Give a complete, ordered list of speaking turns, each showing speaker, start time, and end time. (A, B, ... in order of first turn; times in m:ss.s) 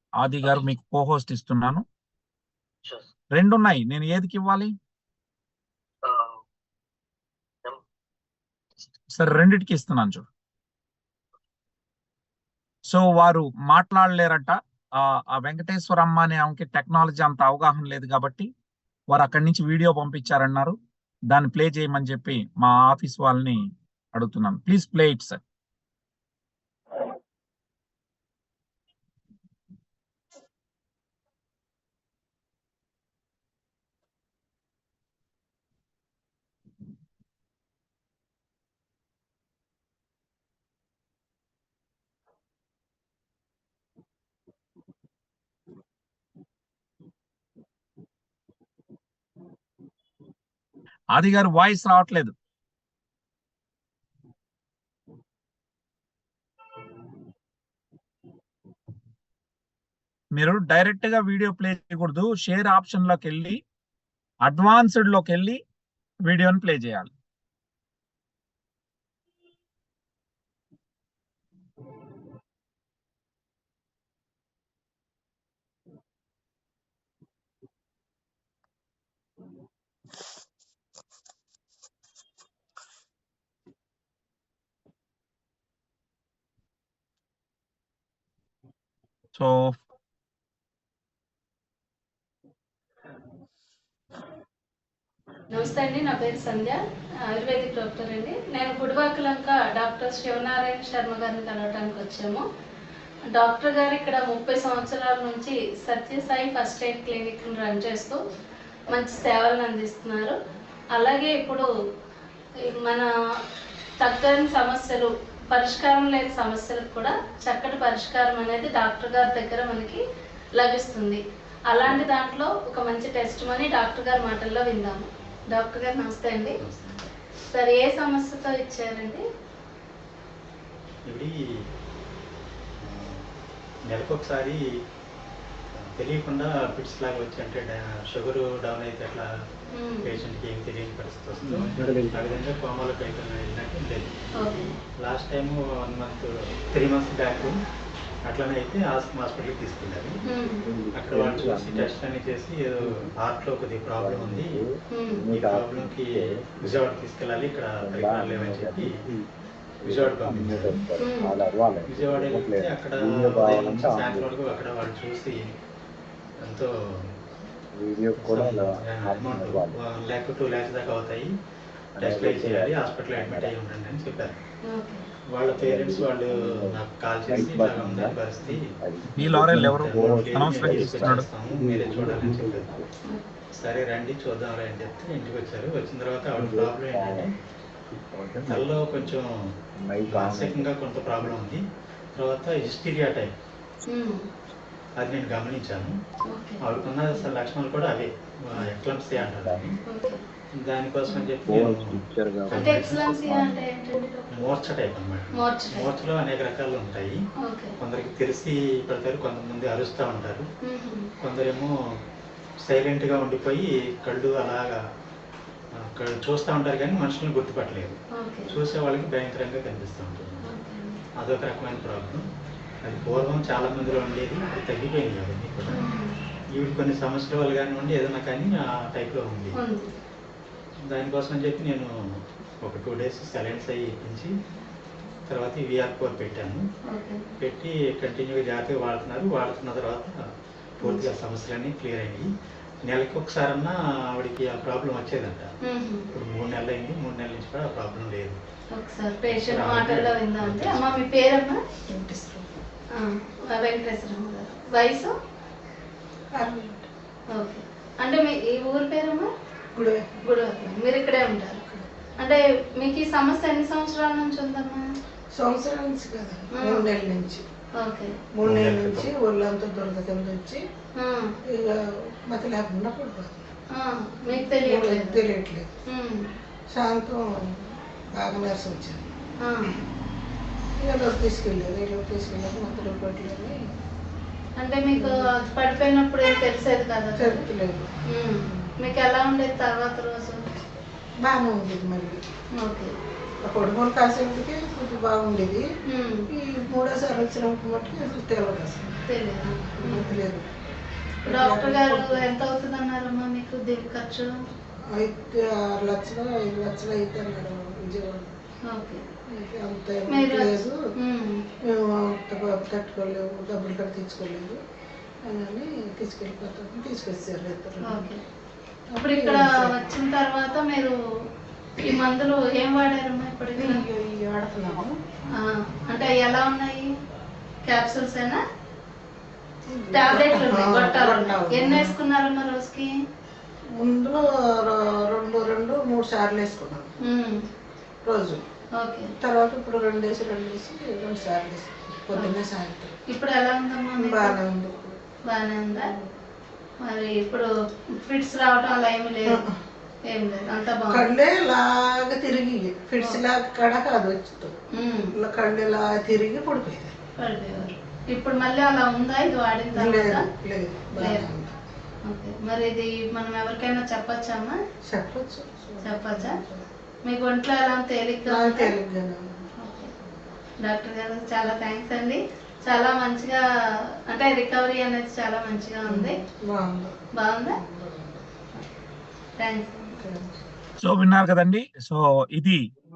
0:00.2-0:01.8 A
0:03.3-0:04.7 A
0:09.1-0:10.2 A
0:12.9-0:18.5 A
0:19.1-0:20.8 A
0:21.3-0:23.6 A
0:24.1-0:25.4 A
0:51.1-0:52.3 A
1:00.3-1:03.6 A
1:04.5-1:05.6 A
1:06.2-1:07.1 A
1:29.4-1:29.8 A
1:35.5-1:36.8 B
1:37.3-1:42.4 B
1:43.3-1:48.2 B
1:48.9-1:50.4 B
1:51.0-1:51.6 B
1:52.7-1:53.1 B
1:54.0-2:00.0 B
2:00.6-2:06.6 B
2:06.6-2:07.1 C
2:07.5-2:09.2 B
2:11.1-2:11.4 C
2:12.8-2:13.2 C
2:13.9-2:14.6 C
2:15.8-2:19.2 C
2:19.7-2:20.1 B
2:20.0-2:24.2 C
2:21.4-2:22.3 D
2:24.4-2:24.7 B
2:25.0-2:27.6 C
2:28.2-2:30.2 C
2:30.3-2:30.6 B
2:30.6-2:32.0 D
2:30.9-2:34.6 C
2:32.8-2:33.1 D
2:34.0-2:36.9 D
2:35.2-2:38.9 C
2:37.8-2:39.3 D
2:39.8-2:44.4 D
2:39.8-2:40.8 C
2:41.0-2:41.3 B
2:41.9-2:45.4 C
2:46.4-2:47.1 C
2:47.7-2:49.8 D
2:48.2-2:51.3 C
2:52.0-2:53.5 D
2:52.0-2:54.4 C
2:54.7-2:55.1 B
2:55.3-2:58.7 C
2:55.5-3:02.9 D
2:59.2-3:01.2 A
2:59.2-3:02.8 C
3:03.6-3:07.3 C
3:06.3-3:07.3 D
3:07.9-3:09.1 D
3:08.5-3:09.3 C
3:09.8-3:11.5 D
3:10.1-3:11.6 C
3:12.2-3:13.3 C
3:13.9-3:14.2 B
3:15.0-3:15.9 C
3:16.3-3:16.7 B
3:16.6-3:19.8 C
3:19.2-3:19.7 D
3:19.9-3:20.2 B
3:20.6-3:23.5 C
3:21.5-3:23.6 D
3:22.5-3:24.5 B
3:22.6-3:23.6 E
3:24.4-3:27.2 C
3:25.5-3:25.9 B
3:27.4-3:27.7 B
3:27.8-3:30.5 C
3:30.7-3:31.1 B
3:31.2-3:31.7 C
3:32.6-3:34.8 C
3:35.9-3:38.0 C
3:38.2-3:38.6 B
3:38.5-3:40.5 C
3:40.5-3:41.0 B
3:41.2-3:42.2 C
3:42.8-3:45.8 C
3:46.6-3:49.6 C
3:50.9-3:54.3 C
3:55.3-3:56.6 C
3:56.9-3:57.2 B
3:57.4-4:00.2 C
4:00.8-4:02.3 C
4:02.8-4:05.5 C
4:05.7-4:06.0 B
4:06.1-4:08.4 C
4:08.8-4:09.7 B
4:09.3-4:11.0 C
4:09.5-4:11.5 E
4:11.9-4:12.5 F
4:13.7-4:15.1 B
4:13.8-4:14.4 E
4:16.4-4:16.9 F
4:18.6-4:19.2 B
4:18.8-4:19.1 E
4:19.7-4:20.0 F
4:20.4-4:21.6 B
4:20.8-4:21.6 E
4:22.8-4:24.1 E
4:22.9-4:24.8 B
4:25.4-4:27.4 F
4:27.9-4:28.1 B
4:28.4-4:30.6 F
4:28.4-4:29.1 C
4:31.0-4:31.3 B
4:31.5-4:33.4 F
4:33.9-4:35.1 B
4:34.4-4:35.7 F
4:34.4-4:34.8 E
4:35.9-4:36.2 B
4:36.7-4:39.1 F
4:39.4-4:39.7 B
4:40.8-4:43.6 F
4:44.6-4:47.4 B
4:45.6-4:46.8 E
4:47.2-4:47.9 F
4:48.2-4:48.4 B
4:48.4-4:48.7 F
4:49.1-4:50.4 B
4:49.7-4:50.1 E
4:51.2-4:52.2 F
4:52.6-4:52.9 B
4:53.4-4:55.6 F
4:56.0-4:56.2 B
4:56.4-4:59.0 F
4:59.2-5:00.1 B
4:59.7-5:00.5 F
5:01.2-5:02.2 F
5:01.3-5:01.8 E
5:01.5-5:02.1 B
5:02.4-5:04.1 E
5:03.5-5:04.2 B
5:04.9-5:08.3 F
5:08.7-5:09.0 B
5:09.3-5:10.8 F
5:11.2-5:11.4 B
5:11.6-5:14.6 F
5:15.2-5:18.1 F
5:18.9-5:19.7 F
5:19.8-5:20.9 E
5:22.1-5:23.5 E
5:23.6-5:24.9 F
5:25.9-5:26.4 B
5:26.0-5:26.8 E
5:27.7-5:28.4 B
5:27.8-5:28.1 E
5:29.7-5:31.9 F
5:30.0-5:32.7 E
5:30.1-5:31.9 B
5:33.8-5:36.9 F
5:38.0-5:38.4 F
5:38.8-5:39.1 B
5:39.2-5:42.9 F
5:43.2-5:44.2 E
5:44.0-5:45.0 F
5:45.6-5:45.9 B
5:45.7-5:46.1 F
5:46.9-5:47.4 E
5:48.1-5:49.2 E
5:49.3-5:49.6 F
5:50.2-5:50.9 E
5:50.9-5:54.5 F
5:54.8-5:55.1 B
5:55.1-5:57.0 F
5:57.2-5:57.8 B
5:58.2-5:59.7 E
5:59.7-6:01.5 F
6:02.1-6:02.8 B
6:02.8-6:04.2 E
6:03.6-6:04.5 B
6:04.9-6:06.6 F
6:07.2-6:08.2 E
6:08.3-6:09.5 F
6:10.7-6:12.2 E
6:12.7-6:13.4 E
6:14.1-6:16.1 E
6:15.9-6:18.2 F
6:19.4-6:19.7 E
6:20.0-6:20.4 F
6:20.8-6:22.6 A